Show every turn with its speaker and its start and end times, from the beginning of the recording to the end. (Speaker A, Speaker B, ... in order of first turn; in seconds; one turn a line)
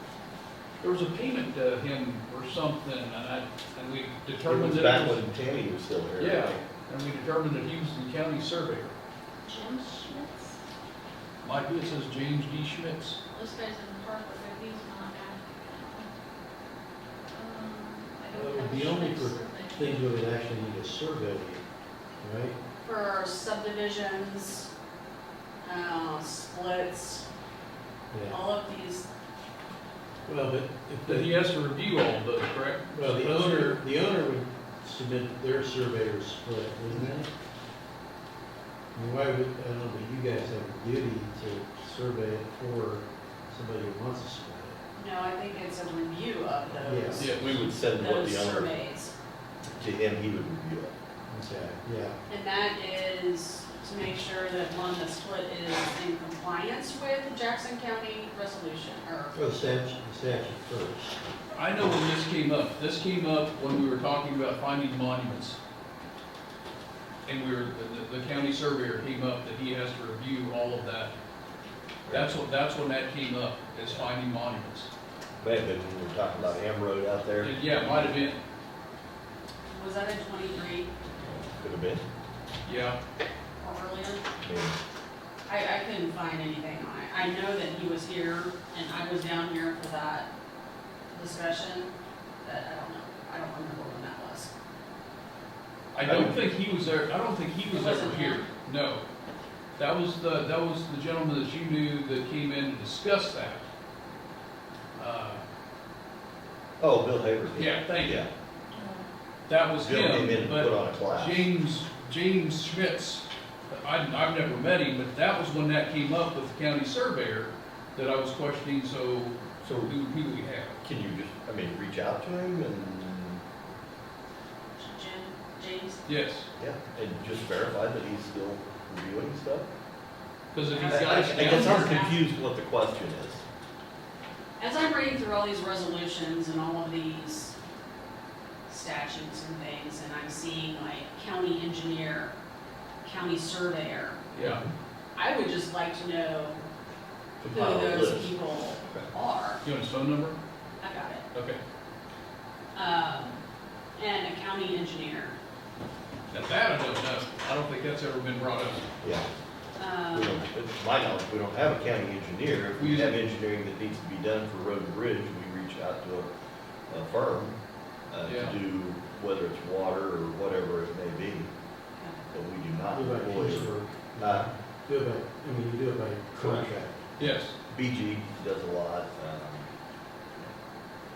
Speaker A: 0.8-5.2
Speaker B: 4.5-6.6
Speaker A: 6.2-8.9
Speaker C: 9.5-10.6
Speaker A: 11.4-13.2
Speaker C: 13.3-16.1
Speaker C: 17.3-20.1
Speaker D: 18.3-21.6
Speaker D: 22.2-22.6
Speaker E: 22.8-24.7
Speaker E: 25.6-27.2
Speaker D: 28.1-28.4
Speaker E: 28.3-29.1
Speaker D: 30.3-31.4
Speaker A: 31.1-33.8
Speaker D: 32.9-37.3
Speaker D: 38.9-44.8
Speaker E: 44.9-49.1
Speaker D: 46.8-47.3
Speaker A: 47.2-47.6
Speaker B: 47.2-48.7
Speaker B: 49.7-50.9
Speaker D: 51.3-52.2
Speaker E: 52.3-59.4
Speaker D: 59.3-61.1
Speaker A: 61.5-65.6
Speaker A: 67.3-71.1
Speaker B: 72.1-72.4
Speaker A: 72.1-74.9
Speaker B: 75.4-78.2
Speaker A: 77.4-78.4
Speaker E: 79.7-80.9
Speaker B: 81.2-82.0
Speaker A: 82.7-83.0
Speaker E: 83.6-84.2
Speaker B: 84.4-84.8
Speaker E: 85.5-90.3
Speaker E: 91.1-94.5
Speaker A: 95.9-99.0
Speaker B: 96.0-96.3
Speaker E: 97.7-98.5
Speaker A: 99.8-103.6
Speaker A: 105.0-105.4
Speaker B: 106.8-108.3
Speaker A: 107.6-108.3
Speaker C: 108.7-109.1
Speaker A: 109.5-120.8
Speaker B: 109.7-111.5
Speaker B: 119.6-120.0
Speaker B: 120.8-123.4
Speaker E: 124.8-126.0
Speaker A: 126.1-126.5
Speaker B: 126.6-129.7
Speaker A: 130.5-132.0
Speaker E: 130.7-132.2
Speaker B: 130.8-133.4
Speaker E: 134.6-137.6
Speaker E: 138.7-142.3
Speaker E: 143.0-144.2
Speaker A: 144.3-144.6
Speaker B: 144.4-144.7
Speaker E: 145.2-146.7
Speaker B: 147.4-149.1
Speaker E: 147.5-149.6
Speaker A: 149.6-150.4
Speaker E: 150.8-151.2
Speaker A: 151.3-151.6
Speaker E: 152.8-153.4
Speaker E: 154.0-155.4
Speaker A: 156.3-158.8
Speaker B: 159.0-159.3
Speaker E: 159.8-160.4
Speaker B: 160.1-166.3
Speaker A: 162.8-163.2
Speaker B: 166.9-167.6
Speaker B: 168.1-171.5
Speaker A: 168.2-168.6
Speaker E: 172.0-172.2
Speaker B: 172.3-174.5
Speaker D: 172.9-177.0
Speaker B: 176.3-176.7
Speaker A: 177.2-177.5
Speaker B: 177.7-179.7